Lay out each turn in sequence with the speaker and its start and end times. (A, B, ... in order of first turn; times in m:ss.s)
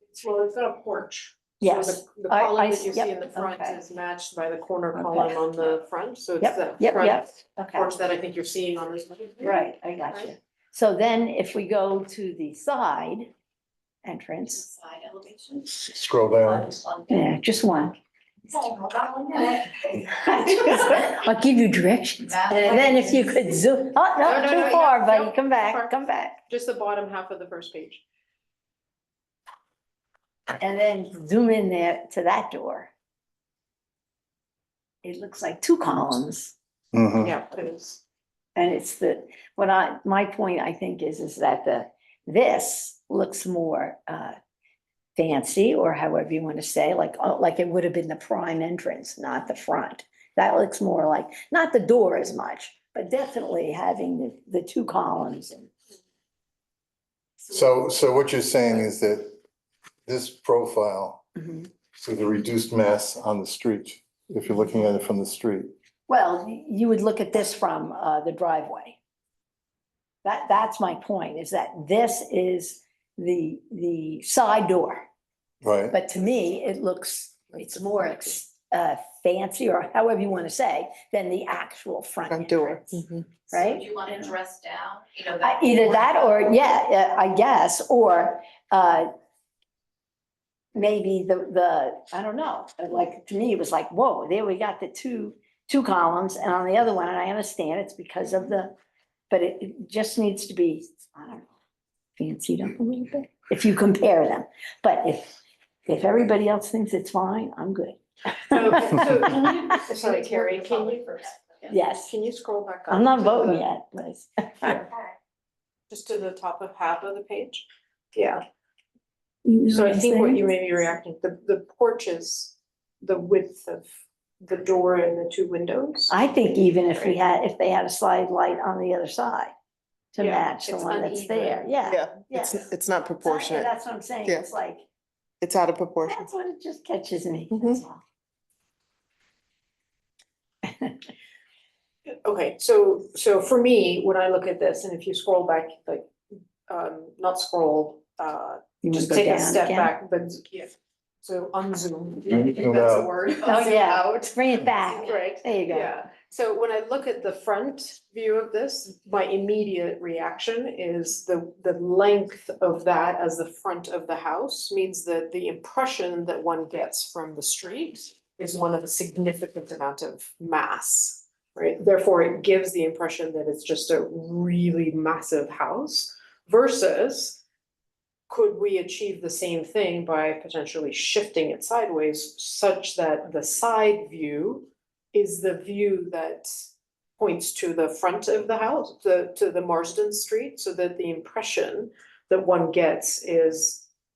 0:00.1-0:10.3 A
0:01.6-0:03.8 B
0:04.9-0:05.4 B
0:06.4-0:07.9 B
0:09.4-0:13.3 B
0:14.0-0:14.7 B
0:14.6-0:15.8 C
0:15.8-0:16.7 D
0:16.5-0:17.2 C
0:17.1-0:18.0 B
0:18.5-0:19.7 C
0:20.2-0:26.4 B
0:22.3-0:23.4 C
0:24.2-0:28.0 A
0:30.6-0:32.9 B
0:35.0-0:36.5 B
0:36.9-0:37.4 D
0:37.2-0:38.0 A
0:38.6-0:44.4 B
0:45.2-0:55.7 B
0:57.5-0:59.4 D
1:00.1-1:01.3 D
1:01.9-1:05.7 D
1:06.1-1:09.0 B
1:10.2-1:15.1 B
1:15.6-1:16.0 D
1:15.9-1:23.9 B
1:22.3-1:23.4 E
1:23.5-1:26.3 C
1:25.4-1:29.1 B
1:30.7-1:38.7 B
1:39.3-1:41.5 B
1:42.2-1:49.6 B
1:48.4-1:51.4 A
1:50.0-1:51.0 C
1:51.7-1:52.1 B
1:52.1-1:53.6 A
1:52.9-1:54.8 B
1:55.9-1:58.4 A
1:59.4-2:00.4 B
1:59.7-2:03.9 A
2:04.4-2:06.1 A
2:06.1-2:09.5 B
2:10.1-2:14.9 B
2:10.2-2:12.1 A
2:11.9-2:13.7 E
2:15.4-2:16.3 E
2:16.0-2:18.0 B
2:17.5-2:17.8 E
2:22.2-2:26.1 A
2:26.7-2:34.1 A
2:28.8-2:29.9 B
2:32.3-2:33.1 D
2:33.4-2:36.0 B
2:34.9-2:57.4 A
2:58.3-3:06.5 A
3:07.2-3:13.9 A